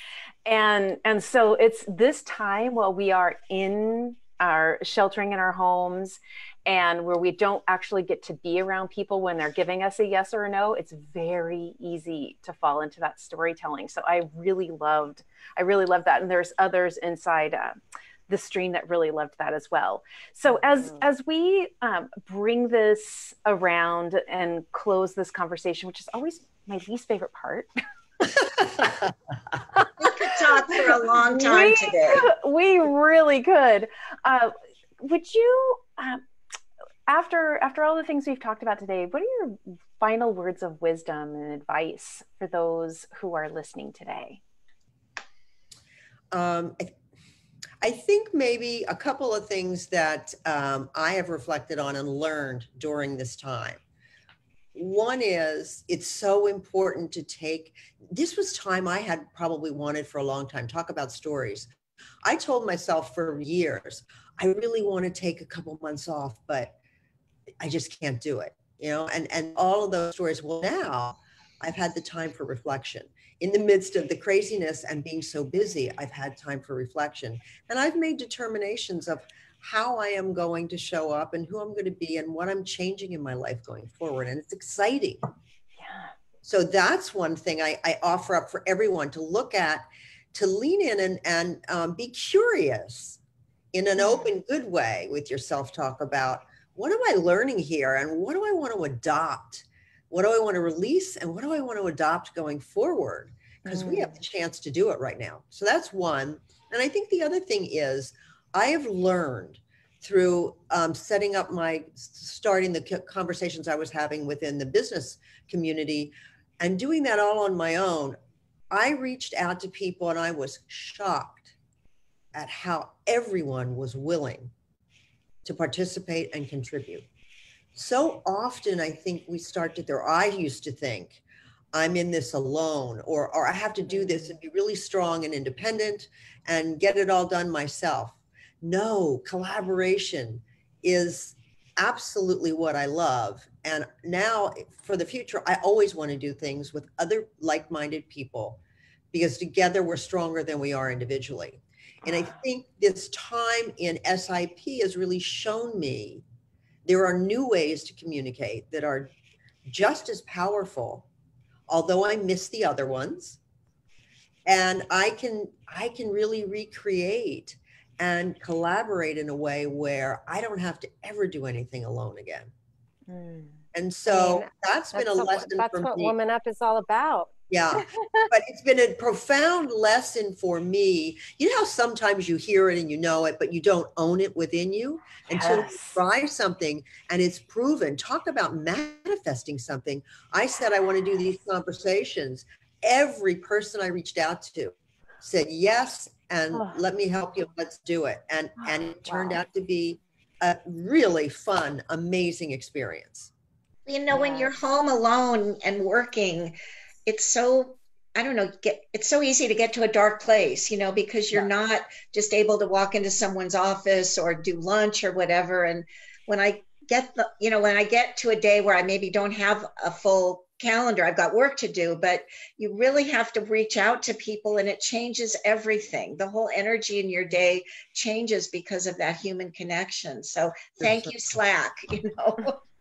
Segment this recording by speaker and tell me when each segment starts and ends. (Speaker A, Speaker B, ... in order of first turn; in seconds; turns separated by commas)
Speaker A: 0.5-17.8, Speaker A: 18.3-27.7, Speaker B: 28.6-29.1, Speaker C: 30.0-32.3, Speaker A: 31.3-36.2, Speaker A: 37.1-44.4, Speaker B: 46.3-47.0, Speaker B: 47.8-53.8, Speaker B: 54.7-61.7, Speaker B: 62.2-66.8, Speaker B: 67.6-85.2, Speaker A: 85.8-86.1, Speaker B: 86.4-93.2, Speaker B: 93.7-118.2, Speaker A: 94.0-94.3, Speaker A: 103.7-104.2, Speaker B: 118.7-121.5, Speaker B: 122.3-124.5, Speaker B: 125.4-127.0, Speaker B: 127.7-131.2, Speaker B: 131.7-148.6, Speaker B: 149.1-156.2, Speaker A: 152.1-152.4, Speaker B: 156.8-159.1, Speaker B: 159.7-161.1, Speaker B: 161.7-163.4, Speaker B: 164.5-172.5, Speaker A: 173.1-173.6, Speaker B: 173.7-176.1, Speaker D: 174.1-178.3, Speaker B: 177.5-203.3, Speaker A: 185.3-186.0, Speaker A: 196.5-196.8, Speaker A: 198.6-199.4, Speaker C: 203.9-206.6, Speaker D: 204.2-204.5, Speaker C: 207.1-232.6, Speaker B: 230.8-231.2